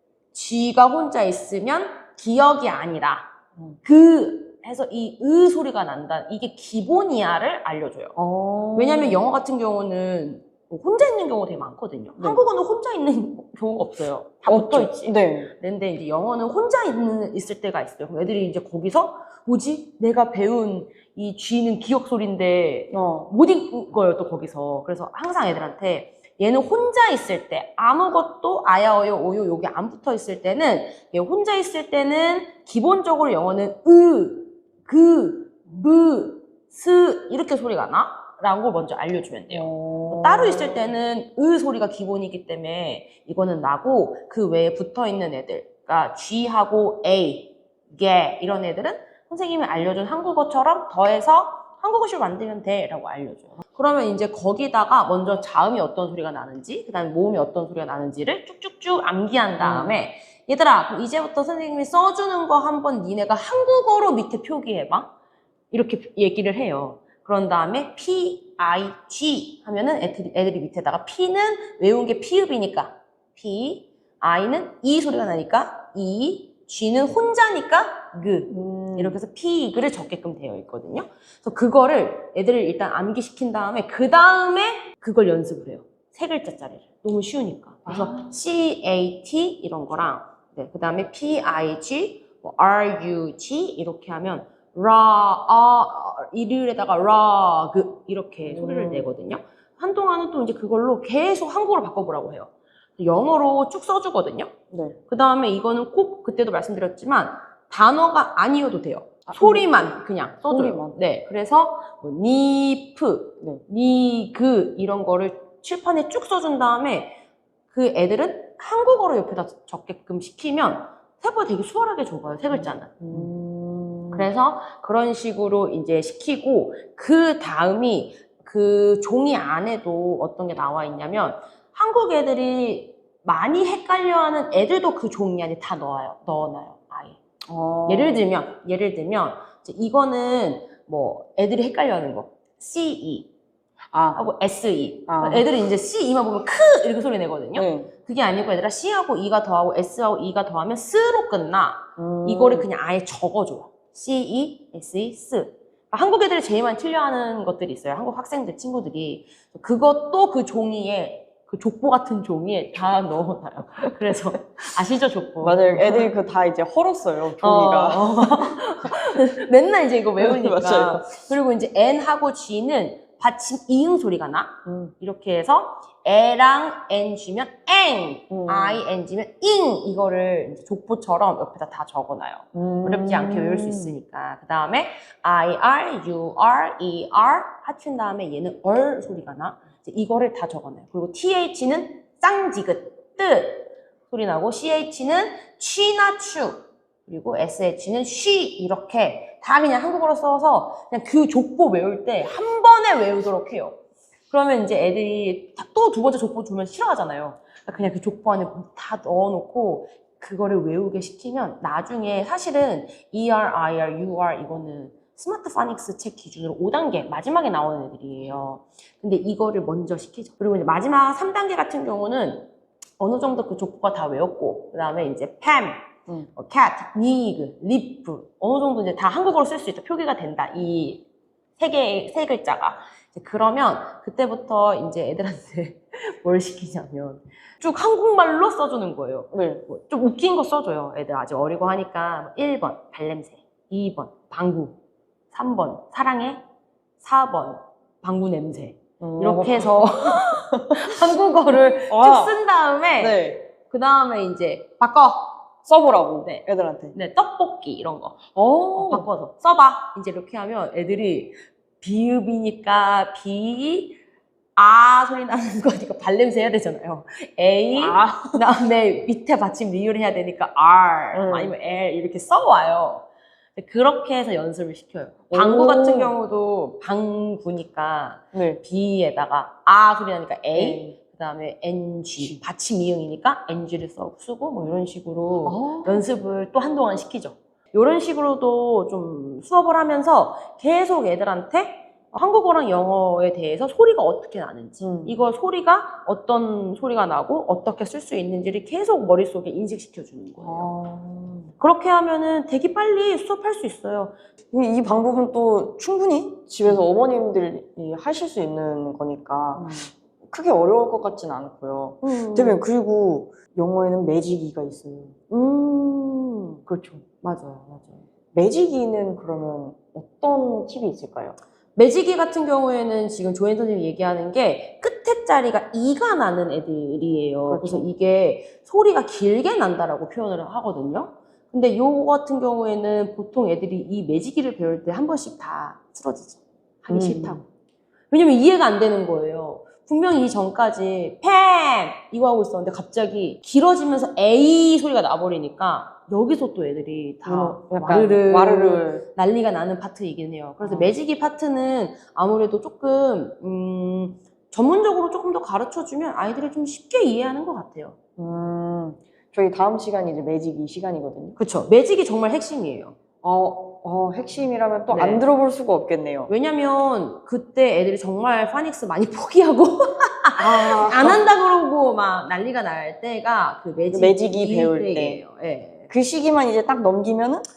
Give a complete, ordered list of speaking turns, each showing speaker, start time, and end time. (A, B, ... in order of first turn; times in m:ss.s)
0:00.3-0:03.3 A
0:03.8-0:08.2 A
0:08.2-0:09.2 B
0:08.8-1:05.1 A
0:12.2-0:12.4 B
0:14.5-0:15.5 B
0:22.9-0:23.3 B
0:39.5-0:40.9 B
0:59.6-1:00.0 B
1:05.7-1:44.5 A
1:18.5-1:19.2 B
1:27.9-1:28.4 B
1:38.4-1:39.1 B
1:44.7-1:45.0 B
1:45.1-1:57.2 A
1:49.3-1:49.7 B
1:50.5-1:51.0 B
1:57.7-2:03.3 A
2:03.0-2:04.3 B
2:04.1-2:17.2 A
2:17.5-2:18.2 B
2:17.9-2:23.3 A
2:23.9-2:24.2 B
2:24.1-2:46.1 A
2:25.1-2:25.5 B
2:27.6-2:27.9 B
2:32.0-2:32.7 B
2:45.4-2:48.7 B
2:47.4-3:23.8 A
2:50.2-2:51.0 B
2:54.7-2:54.9 B
2:58.3-2:58.8 B
3:02.5-3:04.0 B
3:24.3-3:51.0 A
3:51.6-4:04.8 A
3:59.3-3:59.7 B
4:05.3-4:06.4 A
4:07.0-4:15.4 A
4:09.0-4:10.8 B
4:11.5-4:12.4 B
4:13.0-4:13.4 B
4:15.7-4:17.0 B
4:16.2-4:24.0 A
4:18.4-4:19.1 B
4:24.6-5:00.7 A
4:27.7-4:28.4 B
4:31.1-4:31.6 B
4:35.3-4:36.2 B
4:38.3-4:38.6 B
4:40.5-4:41.0 B
4:45.4-4:46.1 B
4:54.8-4:55.2 B
5:00.4-5:01.5 B
5:01.6-5:04.2 A
5:04.5-5:15.2 B
5:12.0-5:12.6 A
5:15.3-5:16.6 A
5:16.7-5:17.0 B
5:17.2-5:18.0 A
5:18.3-5:21.4 B
5:21.8-5:37.4 A
5:27.5-5:27.9 B
5:36.9-5:37.4 B
5:38.1-5:58.0 A
5:47.2-5:49.0 B
5:50.6-5:50.9 B
5:58.2-6:01.4 B
6:01.4-6:03.0 A
6:03.2-6:06.3 B
6:04.9-6:05.2 A
6:06.3-6:15.9 A
6:10.4-6:11.2 B
6:13.9-6:15.2 B
6:15.9-6:17.4 B